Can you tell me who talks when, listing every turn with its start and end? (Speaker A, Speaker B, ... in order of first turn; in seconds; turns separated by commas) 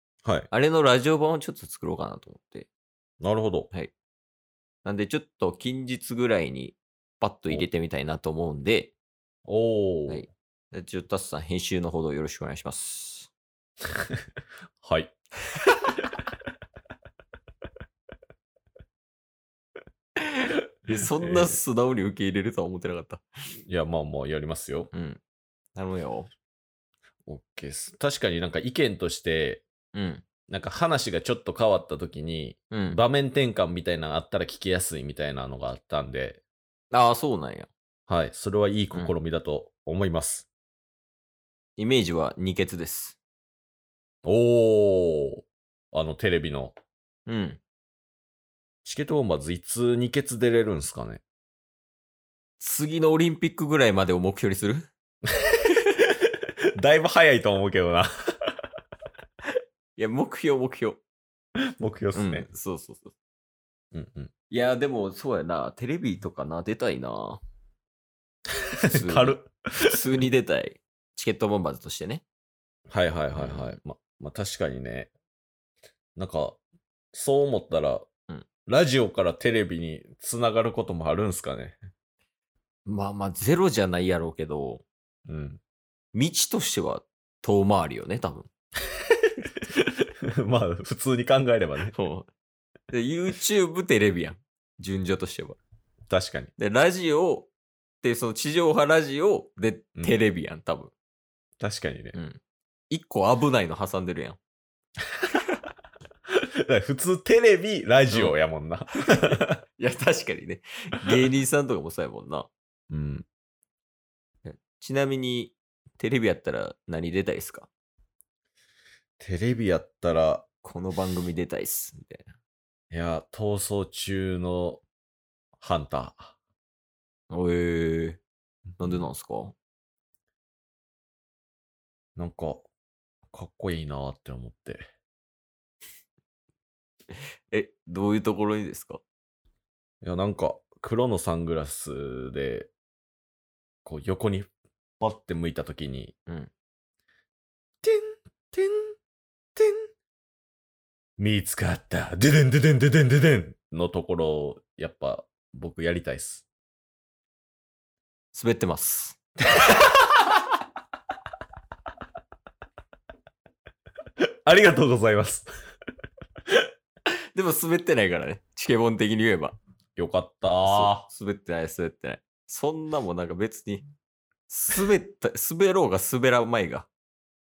Speaker A: 0.5-2.7, Speaker B: 3.2-3.7, Speaker A: 4.8-8.9, Speaker B: 9.5-10.3, Speaker A: 10.1-13.3, Speaker B: 14.8-15.1, Speaker A: 20.2-23.2, Speaker B: 20.9-21.6, Speaker B: 23.7-24.9, Speaker A: 24.9-25.2, Speaker A: 25.8-26.3, Speaker B: 27.2-29.6, Speaker A: 29.9-30.2, Speaker B: 30.5-36.4, Speaker A: 32.7-33.0, Speaker A: 36.9-37.7, Speaker B: 38.1-40.5, Speaker A: 41.8-43.2, Speaker B: 44.2-46.7, Speaker A: 47.3-47.6, Speaker B: 48.8-51.2, Speaker A: 52.6-54.9, Speaker B: 55.5-56.0, Speaker B: 56.8-58.5, Speaker A: 60.0-61.0, Speaker B: 61.8-62.5, Speaker A: 62.1-63.1, Speaker B: 63.9-64.3, Speaker A: 64.5-67.4, Speaker B: 68.8-69.9, Speaker A: 68.8-72.2, Speaker B: 72.9-75.1, Speaker A: 73.3-73.8, Speaker B: 76.2-76.6, Speaker B: 77.1-78.1, Speaker B: 78.7-81.8, Speaker A: 82.8-84.8, Speaker B: 85.3-85.6, Speaker A: 86.1-88.5, Speaker B: 89.7-91.9, Speaker A: 91.9-92.3, Speaker A: 92.9-95.6, Speaker B: 96.1-96.5, Speaker A: 96.6-97.5, Speaker A: 98.0-100.9, Speaker B: 101.6-102.2, Speaker A: 102.1-102.4, Speaker A: 102.9-104.4, Speaker B: 106.6-109.6, Speaker A: 109.3-112.5, Speaker B: 112.9-113.2, Speaker A: 114.4-117.7, Speaker B: 119.2-120.5, Speaker A: 120.6-122.2, Speaker B: 122.9-124.8, Speaker B: 125.6-126.3, Speaker A: 127.3-128.2, Speaker A: 128.8-129.5, Speaker B: 132.2-132.7, Speaker B: 133.3-134.8, Speaker A: 137.5-139.0, Speaker B: 140.0-142.7, Speaker B: 143.8-144.5, Speaker B: 145.0-146.1, Speaker B: 147.8-148.9, Speaker B: 149.6-149.9, Speaker B: 151.2-156.4, Speaker A: 158.3-159.2, Speaker B: 164.4-165.5, Speaker A: 167.3-169.6, Speaker B: 169.9-171.1, Speaker A: 170.6-173.8, Speaker A: 174.5-176.9